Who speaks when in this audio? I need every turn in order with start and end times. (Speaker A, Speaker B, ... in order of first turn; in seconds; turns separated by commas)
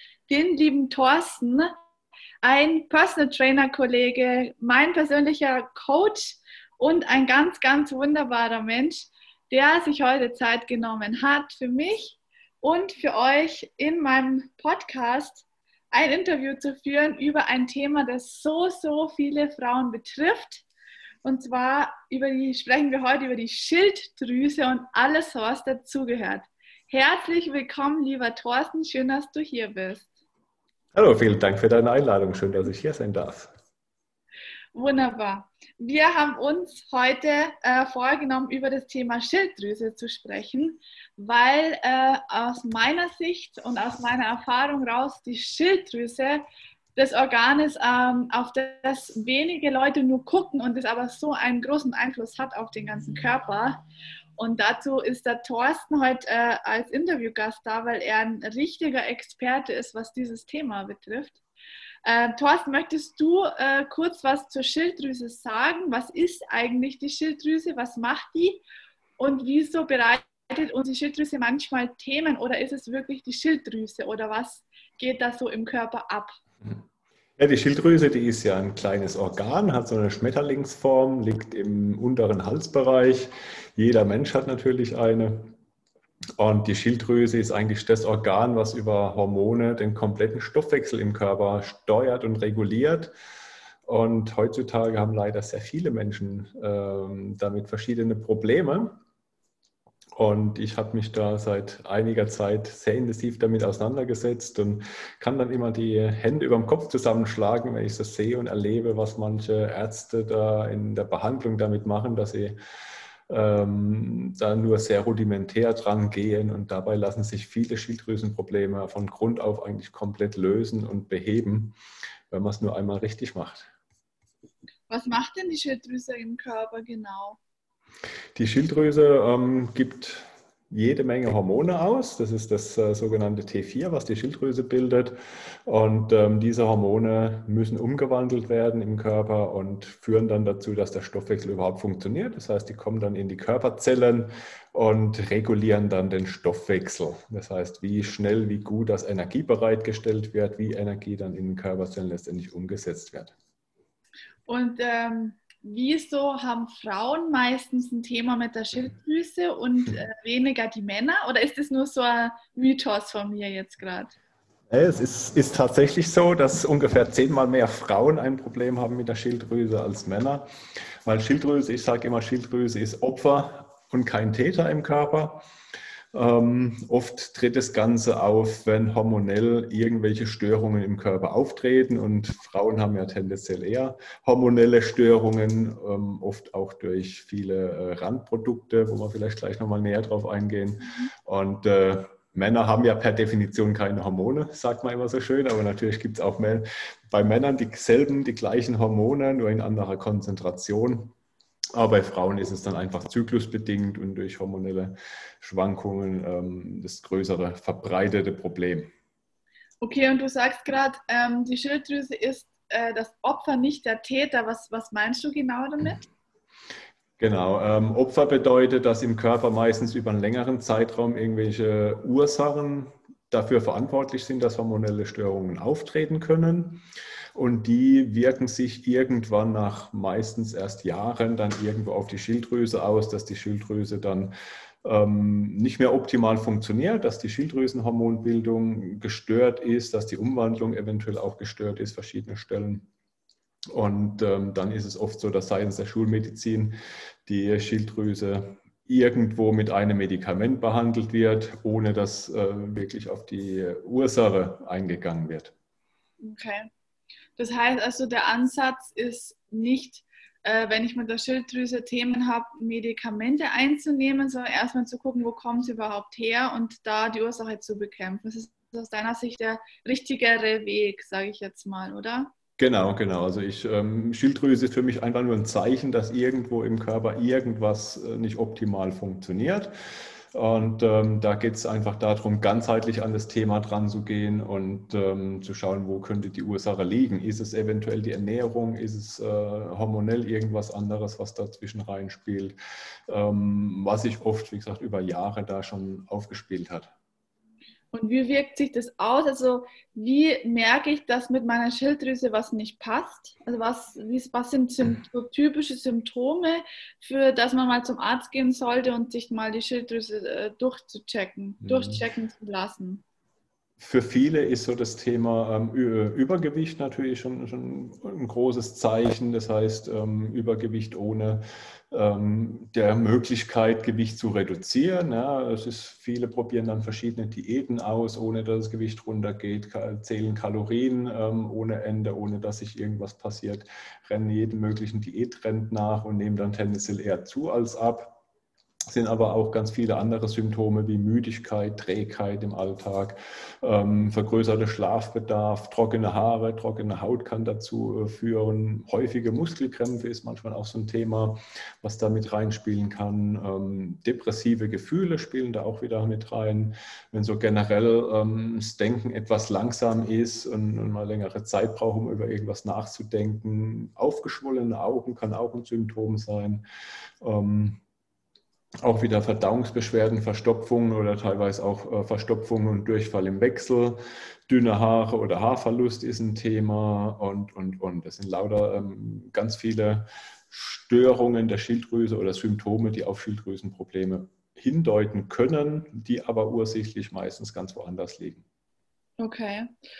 Speaker A: 0.3-1.7, Speaker A: 2.4-20.6, Speaker A: 21.2-30.1, Speaker B: 30.9-33.5, Speaker A: 34.7-46.4, Speaker A: 47.0-53.8, Speaker A: 54.4-61.4, Speaker A: 62.0-68.6, Speaker A: 69.2-76.3, Speaker B: 77.4-85.5, Speaker B: 86.4-93.1, Speaker B: 93.8-99.0, Speaker B: 100.2-112.5, Speaker B: 113.3-121.8, Speaker B: 122.3-123.7, Speaker A: 124.9-127.4, Speaker B: 128.3-153.3, Speaker A: 154.5-164.1, Speaker B: 164.7-170.4, Speaker B: 171.0-175.4, Speaker B: 176.1-201.1, Speaker A: 190.8-191.1, Speaker B: 201.7-208.9, Speaker A: 209.8-216.0, Speaker B: 217.2-226.8, Speaker B: 227.3-234.3, Speaker B: 234.8-242.9, Speaker B: 243.7-246.7, Speaker B: 247.2-255.5, Speaker A: 256.2-256.7, Speaker A: 257.4-272.3, Speaker B: 272.6-279.7, Speaker B: 280.3-292.6, Speaker B: 293.1-296.9, Speaker A: 297.9-313.0, Speaker B: 311.6-312.0, Speaker B: 313.8-338.2, Speaker B: 338.9-366.6, Speaker B: 367.2-367.8, Speaker B: 368.8-388.4, Speaker A: 389.2-389.7